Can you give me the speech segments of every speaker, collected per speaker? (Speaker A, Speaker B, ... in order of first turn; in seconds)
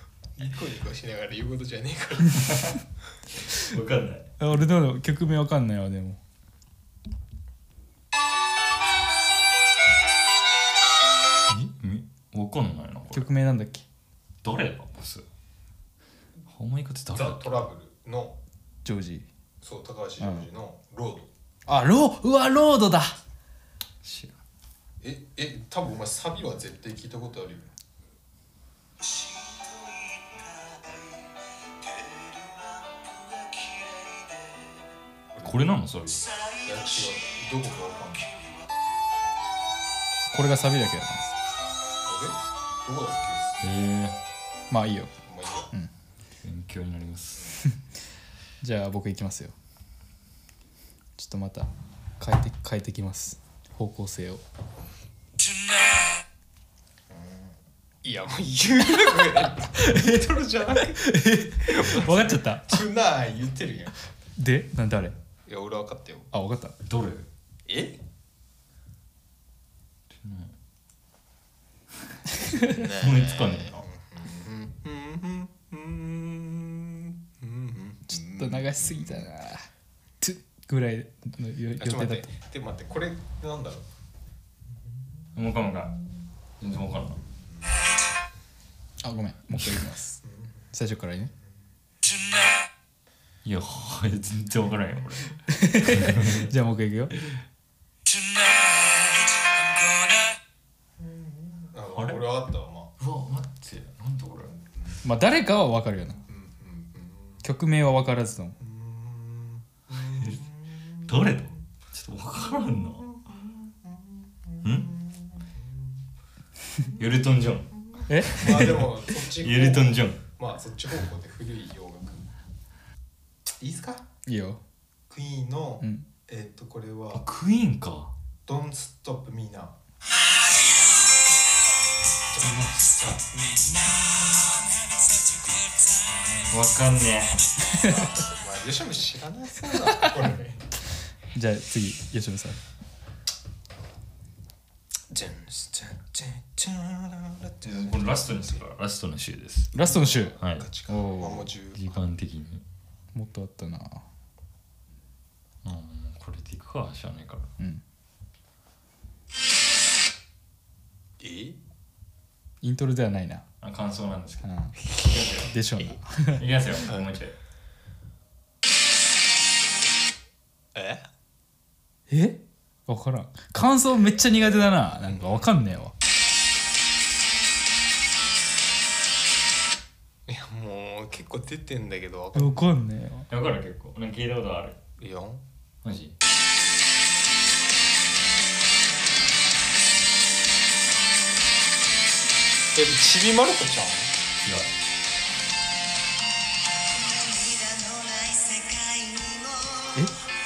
Speaker A: 0.4-2.6, 17.1-18.4, 19.6-21.3, 25.0-27.7, 36.6-38.4, 42.0-43.6, 45.3-45.7, 57.1-63.9, 65.5-66.3, 67.7-68.0, 72.6-79.3, 81.8-83.9, 101.0-102.9, 106.3-107.4, 108.6-111.4, 113.0-115.9, 117.9-122.3, 123.6-124.1, 125.1-127.2, 128.5-129.8, 132.3-134.5, 137.8-140.7, 145.1-148.6, 149.8-152.0, 161.2-161.6, 170.8-171.1, 175.1-175.5, 180.3-182.6, 185.0-185.4, 192.8-194.1
Speaker B: 2.4-2.8, 3.5-4.3, 11.5-13.3, 14.4-15.2, 16.5-17.6, 24.0-24.4, 35.4-36.3, 43.6-44.2, 46.4-47.6, 66.9-67.3, 70.1-70.5, 72.7-73.9, 85.3-86.0, 86.6-87.2, 93.4-96.5, 101.9-102.2, 103.0-104.6, 110.0-110.4, 111.0-113.2, 114.6-114.9, 117.0-120.2, 127.1-128.1, 136.5-137.4, 147.6-149.8, 150.4-150.7, 151.7-152.6, 155.6-157.5, 163.6-165.5, 166.3-167.3, 183.3-184.8, 185.8-186.2, 194.4-194.7
Speaker C: 4.4-6.2, 13.1-13.8, 18.9-19.3, 20.2-20.5, 21.7-23.2, 40.3-41.2, 44.7-45.1, 48.6-49.5, 51.2-54.4, 59.8-60.3, 60.9-62.8, 64.4-65.2, 66.3-66.8, 78.1-79.7, 80.2-82.3, 89.0-91.3, 95.5-97.2, 105.0-106.2, 107.4-108.6, 118.1-118.9, 124.3-124.6, 141.3-142.6, 149.7-151.5, 153.1-154.0, 162.6-163.4, 164.4-164.7, 165.5-166.4, 172.1-175.9, 182.3-183.3